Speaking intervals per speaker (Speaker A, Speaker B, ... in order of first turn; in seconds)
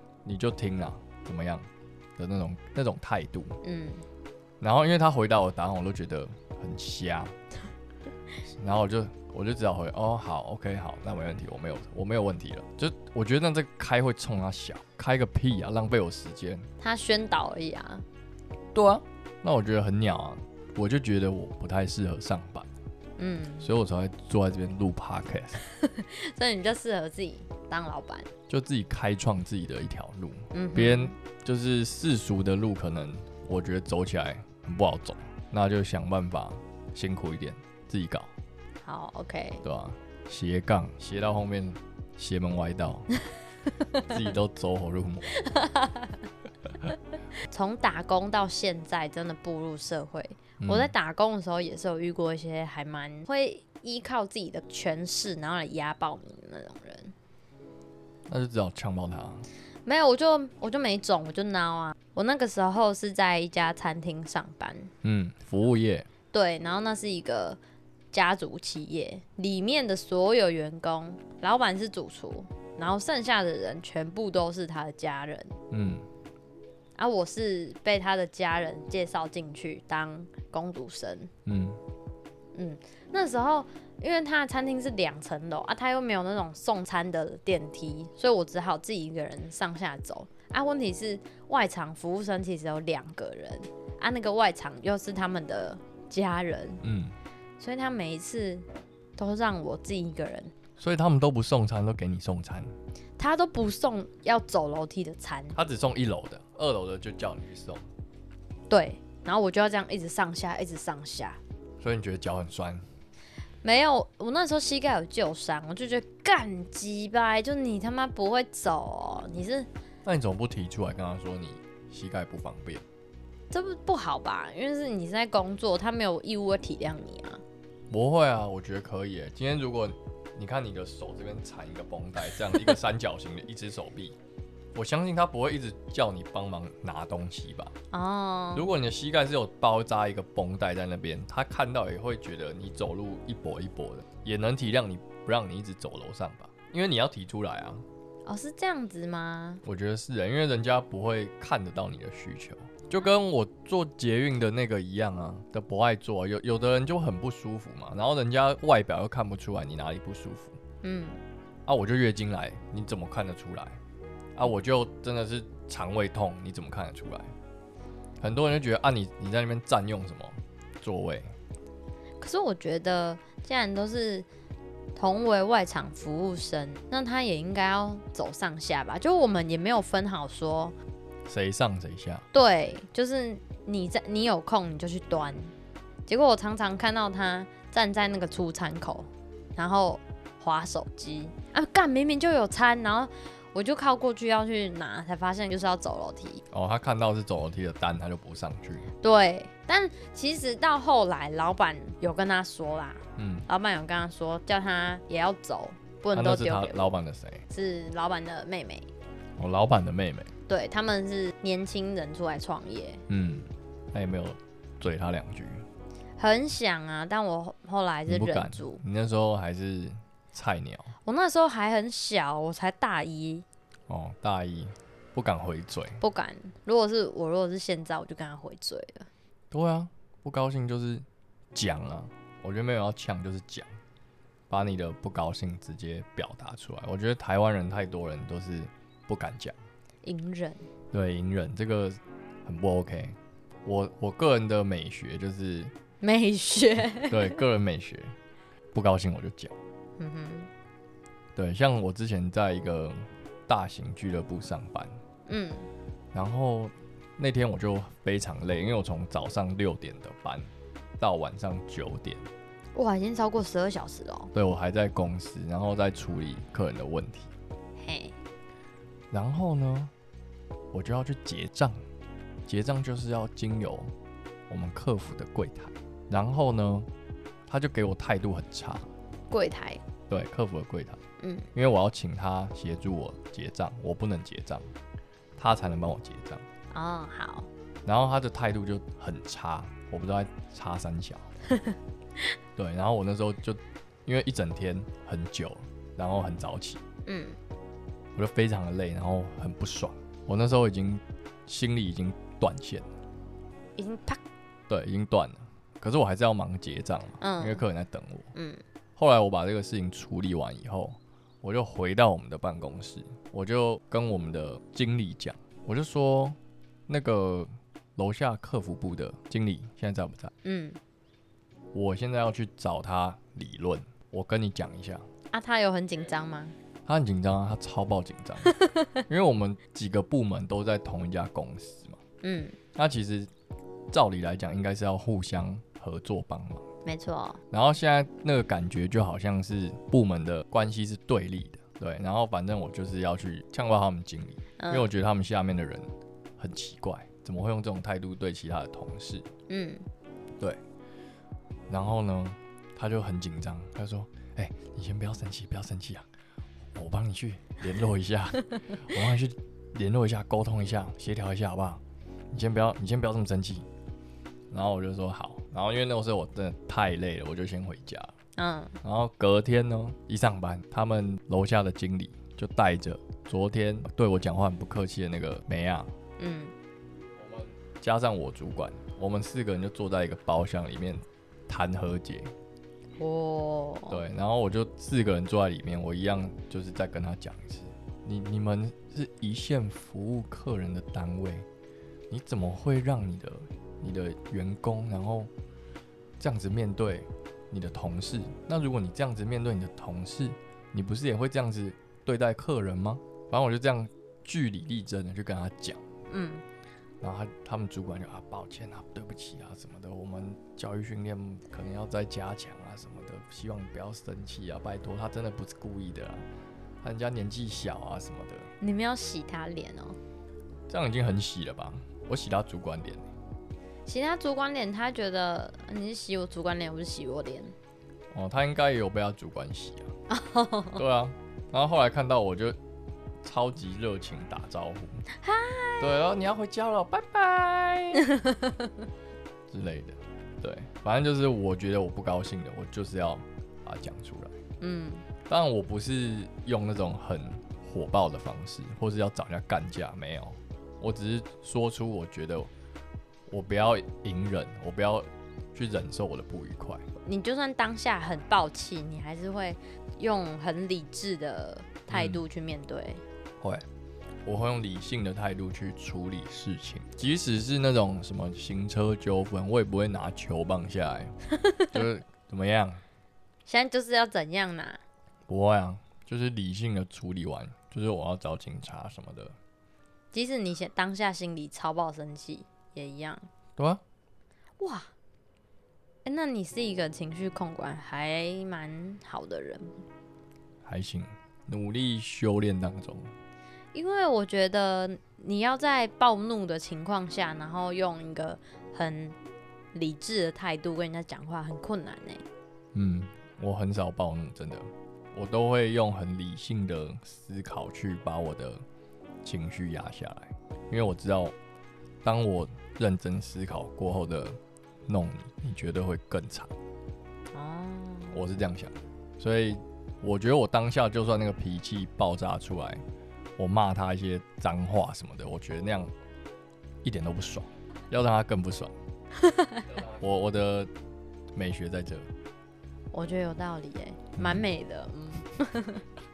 Speaker A: 0.2-3.6, 4.6-7.3, 8.5-16.7, 18.7-22.7, 23.6-25.6, 28.5-38.3, 39.6-43.1, 44.1-45.4, 50.6-50.9, 58.3-59.5, 65.0-66.1, 75.7-76.1, 81.5-81.8, 96.8-97.1, 100.8-102.7, 105.5-107.9, 111.8-112.8, 120.0-122.8, 127.9-134.2, 134.7-137.7, 138.5-147.8, 149.6-160.6, 161.7-163.8, 164.3-167.3, 168.2-171.3, 181.3-182.2, 196.5-198.9, 203.2-203.5, 206.1-207.4, 209.4-210.3, 213.1-215.7, 218.1-220.9, 223.9-226.0, 229.5-233.7, 234.5-239.5, 240.9-245.7, 247.1-248.2, 248.7-249.5, 251.3-255.0, 256.1-262.3, 264.3-267.3, 269.1-269.9, 270.7-271.8, 272.4-273.9, 274.5-276.9, 277.5-278.9, 280.1-281.0, 281.5-284.7, 285.4-286.4, 287.8-291.3, 292.6-296.8, 298.1-302.9, 304.7-308.3, 309.0-316.4, 316.9-320.3, 321.7-325.1, 326.9-328.5, 329.1-332.0, 332.7-333.3, 333.9-336.6, 337.5-349.3, 351.7-356.1, 356.7-363.7, 364.5-368.1, 368.8-375.9, 377.2-382.3, 383.9-391.5, 392.1-395.3, 396.2-405.8, 407.0-416.2, 416.8-418.5, 420.7-423.1, 428.1-429.9, 430.8-432.6, 433.2-435.0, 435.8-438.1, 439.5-444.4, 445.3-452.5, 453.3-456.8, 461.9-462.2, 463.4-463.6, 464.2-471.1, 471.7-472.8, 475.3-479.4, 483.6-483.8, 490.6-493.1, 502.7-508.6, 509.2-511.3, 512.0-516.5, 518.1-522.8, 523.4-525.9, 526.8-528.7, 529.7-530.7, 531.3-532.1, 534.2-534.5
Speaker B: 3.6-4.0, 16.8-18.0, 23.2-23.7, 25.6-28.3, 30.5-31.1, 38.8-39.6, 45.4-46.2, 47.5-57.1, 59.9-64.9, 66.3-67.6, 68.1-75.6, 77.0-81.3, 82.5-96.8, 97.6-98.6, 99.2-100.5, 103.2-105.6, 108.7-111.4, 113.6-119.7, 123.5-127.4, 137.9-138.7, 148.2-149.6, 160.8-161.2, 172.2-174.3, 174.9-180.7, 182.3-185.5, 186.1-196.4, 199.0-206.9, 207.5-208.9, 210.5-213.0, 216.2-218.8, 221.0-223.4, 226.0-229.1, 240.0-240.7, 246.0-247.4, 250.0-250.5, 255.3-255.7, 262.7-264.3, 267.8-268.1, 279.3-279.8, 281.2-281.5, 286.7-287.5, 297.1-297.4, 303.8-304.2, 307.2-307.6, 308.3-308.6, 320.4-320.8, 325.3-326.5, 328.5-329.0, 332.2-332.6, 336.8-337.4, 344.6-344.9, 349.5-349.9, 368.4-368.8, 376.2-376.5, 383.0-384.0, 406.1-406.4, 418.6-420.0, 423.9-427.5, 430.1-430.8, 435.2-436.0, 438.1-438.7, 444.6-445.0, 457.0-463.0, 473.4-474.8, 480.1-483.3, 484.6-484.9, 486.0-489.8, 493.7-499.1, 499.7-502.2, 517.3-518.2, 529.2-529.7, 532.9-535.8